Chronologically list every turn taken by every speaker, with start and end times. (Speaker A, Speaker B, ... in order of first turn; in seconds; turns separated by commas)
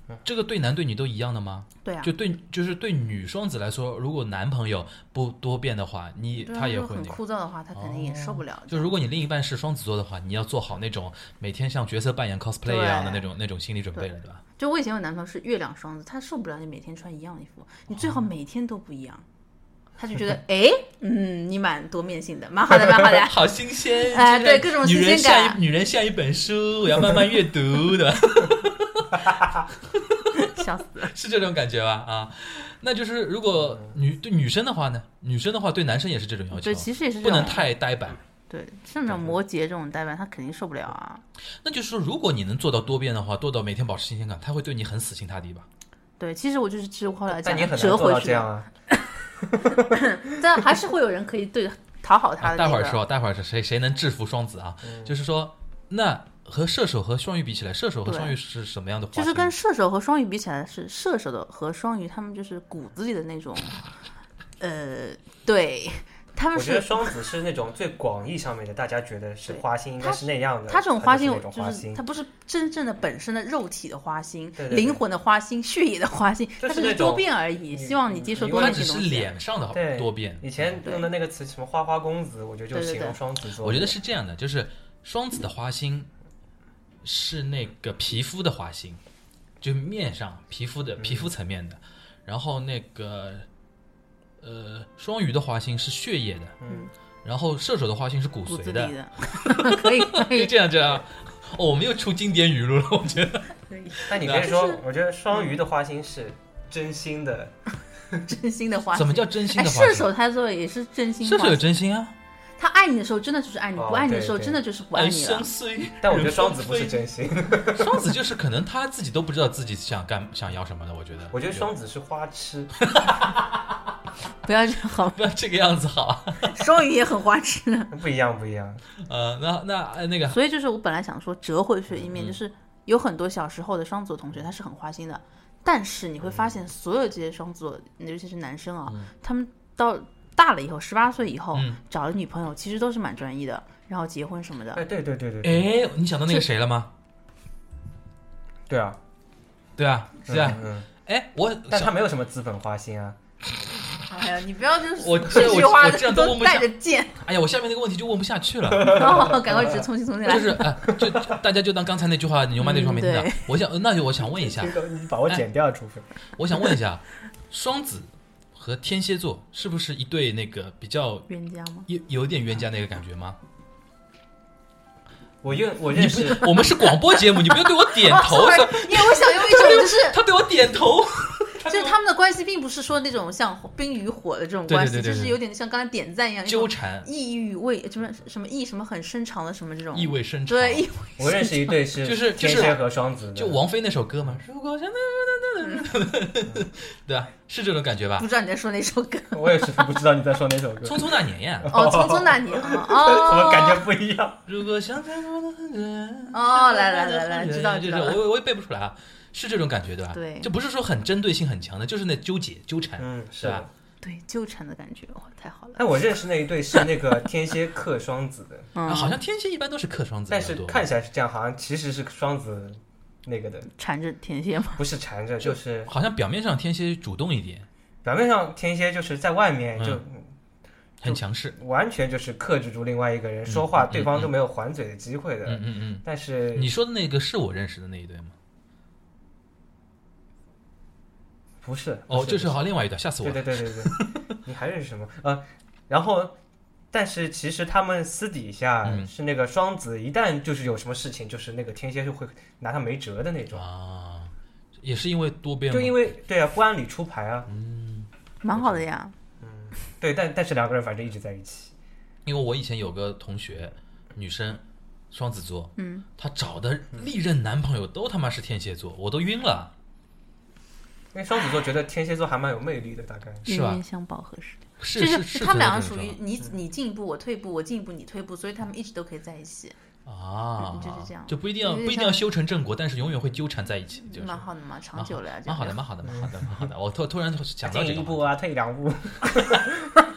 Speaker A: 0.2-7.2, Speaker B: 1.8-2.1, Speaker B: 6.4-8.9, Speaker A: 7.7-14.4, Speaker B: 12.6-13.2, Speaker B: 14.0-19.2, Speaker A: 17.9-18.3, Speaker B: 20.0-25.6, Speaker A: 22.9-38.2, Speaker B: 30.4-31.1, Speaker B: 36.5-37.7, Speaker B: 38.5-41.2, Speaker C: 39.1-39.4, Speaker A: 41.6-45.7, Speaker B: 46.2-48.5, Speaker C: 47.3-48.7, Speaker C: 49.4-49.9, Speaker B: 49.9-53.0, Speaker A: 52.4-59.5, Speaker C: 54.8-55.1, Speaker B: 58.1-58.3, Speaker B: 59.1-63.8, Speaker B: 64.6-67.1, Speaker C: 66.5-72.0, Speaker B: 69.5-79.4, Speaker C: 74.6-75.0, Speaker C: 76.6-79.0, Speaker A: 78.5-80.7, Speaker C: 79.7-84.0, Speaker B: 80.8-81.1, Speaker B: 82.7-83.2, Speaker A: 83.6-86.1, Speaker A: 87.0-89.0, Speaker A: 89.6-93.5, Speaker C: 91.0-91.3, Speaker A: 94.4-96.6, Speaker C: 96.6-96.9, Speaker A: 97.2-104.6, Speaker B: 98.5-100.5, Speaker B: 103.7-104.8, Speaker C: 104.1-107.5, Speaker B: 108.3-111.7, Speaker A: 108.9-110.1, Speaker A: 111.2-112.1, Speaker B: 112.6-115.5, Speaker C: 113.8-114.6, Speaker A: 114.9-117.0, Speaker C: 116.0-118.1, Speaker A: 117.6-121.7, Speaker C: 121.3-122.8, Speaker A: 122.8-123.7, Speaker B: 124.4-125.2, Speaker A: 125.1-126.6, Speaker B: 126.5-127.9, Speaker C: 127.9-128.8, Speaker A: 129.0-130.4, Speaker B: 130.3-144.8, Speaker C: 136.2-136.5, Speaker A: 141.5-141.8, Speaker C: 144.7-145.6, Speaker A: 145.4-146.9, Speaker C: 148.7-149.0, Speaker A: 149.8-151.9, Speaker C: 150.3-150.9, Speaker C: 151.7-153.2, Speaker B: 154.1-157.2, Speaker A: 155.0-159.2, Speaker B: 158.8-160.7, Speaker C: 158.8-159.9, Speaker A: 160.2-164.8, Speaker C: 160.9-161.2, Speaker B: 162.6-163.4, Speaker C: 164.4-166.1, Speaker A: 166.4-171.3, Speaker B: 171.3-171.9, Speaker A: 171.9-173.4, Speaker C: 175.4-176.5, Speaker A: 175.9-181.9, Speaker B: 176.8-180.2, Speaker B: 181.6-191.7, Speaker A: 184.7-185.4, Speaker A: 186.5-187.1, Speaker A: 189.9-190.9, Speaker C: 191.2-193.6, Speaker A: 192.0-192.8, Speaker A: 193.3-198.3, Speaker B: 195.6-195.9, Speaker B: 198.2-199.9, Speaker C: 199.3-204.4, Speaker A: 200.8-201.7, Speaker B: 201.7-203.8, Speaker A: 204.4-213.6, Speaker B: 206.3-208.2, Speaker B: 210.1-210.5, Speaker C: 213.0-213.7, Speaker B: 214.0-215.8, Speaker C: 215.8-218.7, Speaker B: 218.7-219.2, Speaker A: 218.9-220.9, Speaker C: 220.3-223.7, Speaker B: 223.8-224.8, Speaker C: 224.8-225.9, Speaker A: 225.9-227.7, Speaker C: 228.0-230.3, Speaker A: 229.8-230.0, Speaker A: 231.0-231.6, Speaker C: 231.0-236.7, Speaker A: 233.5-234.3, Speaker A: 235.4-238.3, Speaker C: 241.6-242.6, Speaker A: 242.1-244.1, Speaker C: 243.2-246.3, Speaker C: 246.9-253.6, Speaker A: 248.8-249.1, Speaker A: 253.5-256.1, Speaker C: 255.7-257.5, Speaker A: 257.5-258.1, Speaker B: 258.4-259.1, Speaker C: 259.4-261.7, Speaker A: 262.3-269.7, Speaker B: 265.8-266.1, Speaker C: 271.1-273.4, Speaker A: 273.4-273.8, Speaker B: 273.4-279.7, Speaker A: 274.8-276.2, Speaker A: 280.1-288.3, Speaker B: 280.6-282.2, Speaker B: 284.1-285.8, Speaker C: 286.1-286.7, Speaker C: 287.6-289.9